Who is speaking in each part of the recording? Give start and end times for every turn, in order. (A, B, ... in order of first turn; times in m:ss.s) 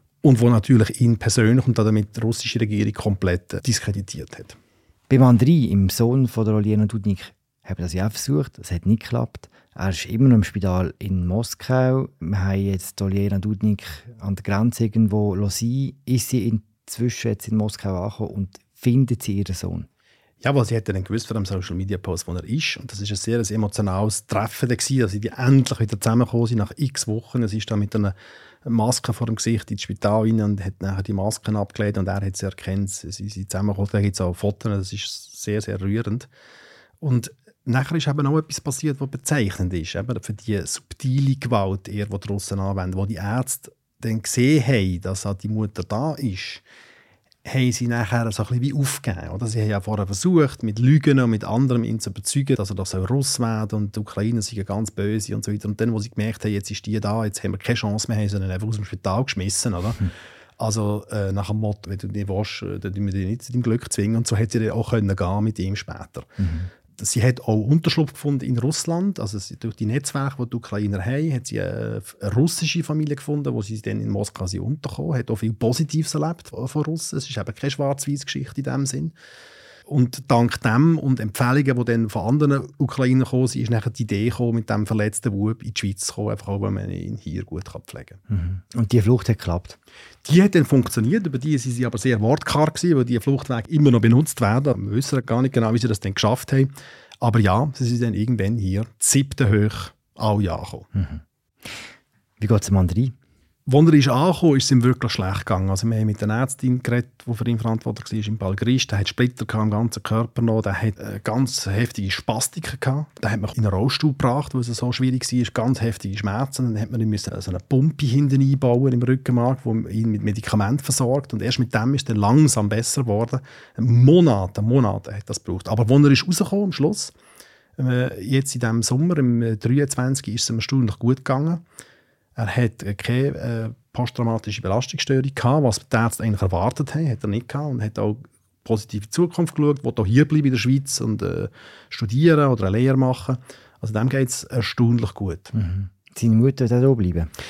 0:00.2-0:04.6 A
0:05.1-0:19.9 B
0:20.4-0:36.3 A
0:37.0-0:46.6 A
0:47.4-1:06.3 A
1:06.4-1:06.7 B
1:06.9-1:19.2 A
1:19.9-1:28.2 A
1:28.3-1:29.8 B
1:30.2-1:40.9 A
1:41.0-1:41.2 B
1:42.4-1:43.1 B
1:43.7-2:07.2 A
2:07.8-2:11.6 A
2:12.4-2:25.5 A
2:25.5-2:27.3 B